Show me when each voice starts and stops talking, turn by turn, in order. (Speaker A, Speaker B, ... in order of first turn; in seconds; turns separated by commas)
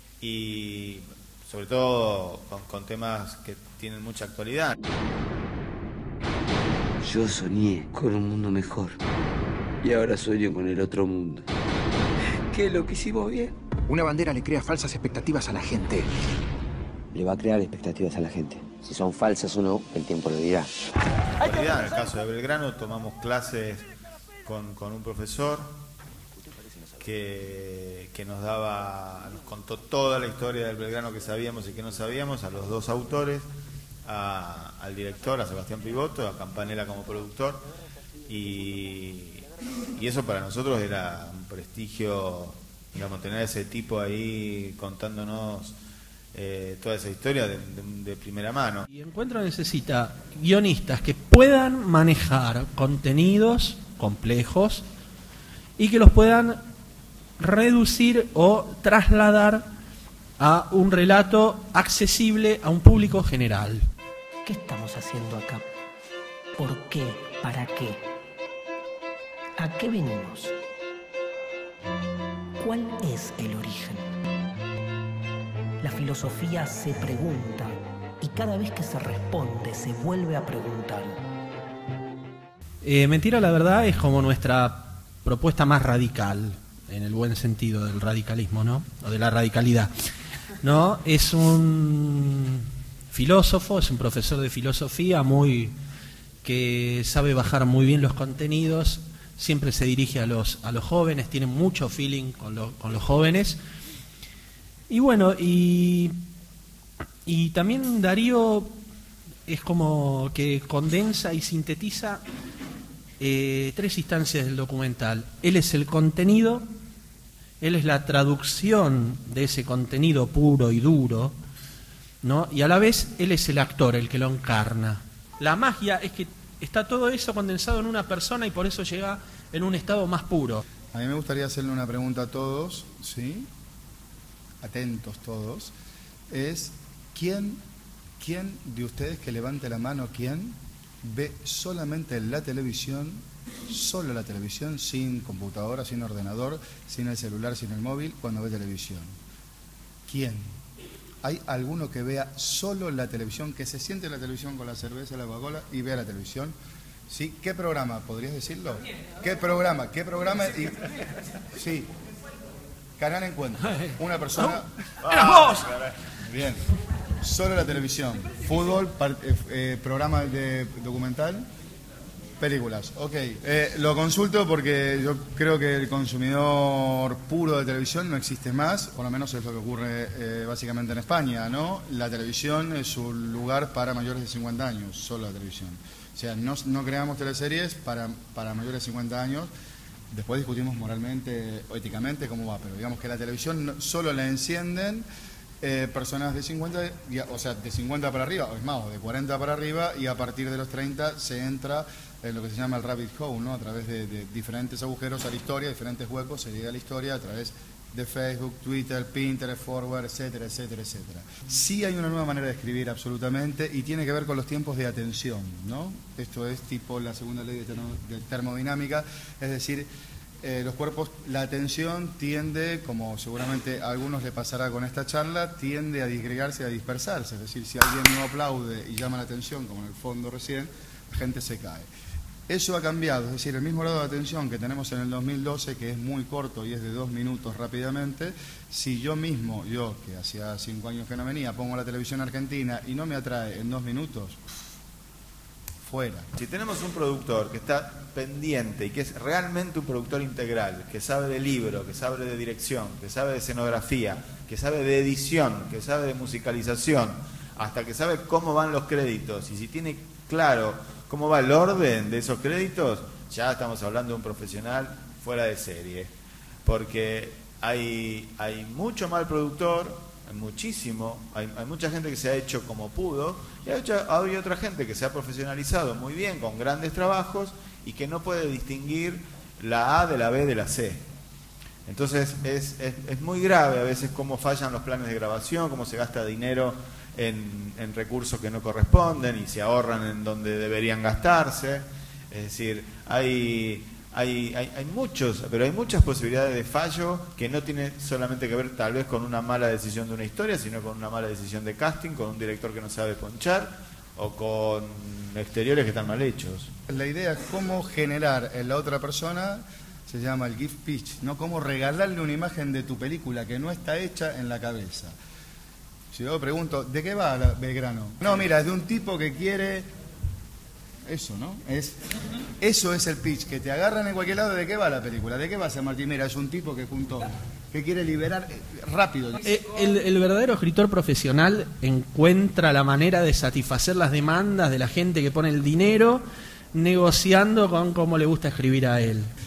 Speaker A: 0.2-4.8, Speaker B: 7.0-9.0, Speaker B: 9.8-11.4, Speaker B: 12.5-13.5, Speaker C: 13.9-16.1, Speaker B: 17.1-20.7, Speaker A: 21.4-23.9, Speaker A: 24.4-25.7, Speaker A: 27.0-33.5, Speaker A: 34.1-37.6, Speaker A: 38.3-45.8, Speaker A: 46.3-48.9, Speaker D: 48.9-54.9, Speaker D: 55.8-56.6, Speaker D: 57.4-59.7, Speaker D: 60.4-63.9, Speaker E: 64.4-65.7, Speaker E: 66.6-68.0, Speaker E: 69.6-70.6, Speaker E: 72.6-74.1, Speaker E: 75.8-81.2, Speaker D: 82.8-89.9, Speaker D: 90.6-95.7, Speaker D: 96.4-103.6, Speaker D: 104.9-106.2, Speaker D: 107.3-108.7, Speaker D: 109.5-112.2, Speaker D: 113.2-116.7, Speaker D: 117.6-121.3, Speaker D: 122.2-130.6, Speaker F: 130.9-133.5, Speaker F: 134.6-135.8, Speaker F: 136.3-137.6, Speaker F: 138.2-149.2, Speaker F: 150.1-150.5, Speaker F: 151.2-156.6, Speaker F: 157.1-161.9, Speaker F: 163.0-164.7, Speaker A: 165.0-166.1, Speaker F: 166.2-166.6, Speaker F: 167.2-171.5, Speaker F: 172.4-189.5, Speaker F: 190.1-195.1, Speaker F: 195.6-219.9, Speaker F: 220.4-231.9, Speaker F: 232.5-244.4, Speaker F: 245.8-246.3, Speaker A: 246.3-266.1, Speaker A: 266.6-281.1, Speaker A: 281.9-306.7, Speaker F: 306.9-315.2, Speaker F: 316.1-319.9, Speaker F: 321.1-322.0, Speaker F: 322.6-329.4, Speaker D: 329.4-339.3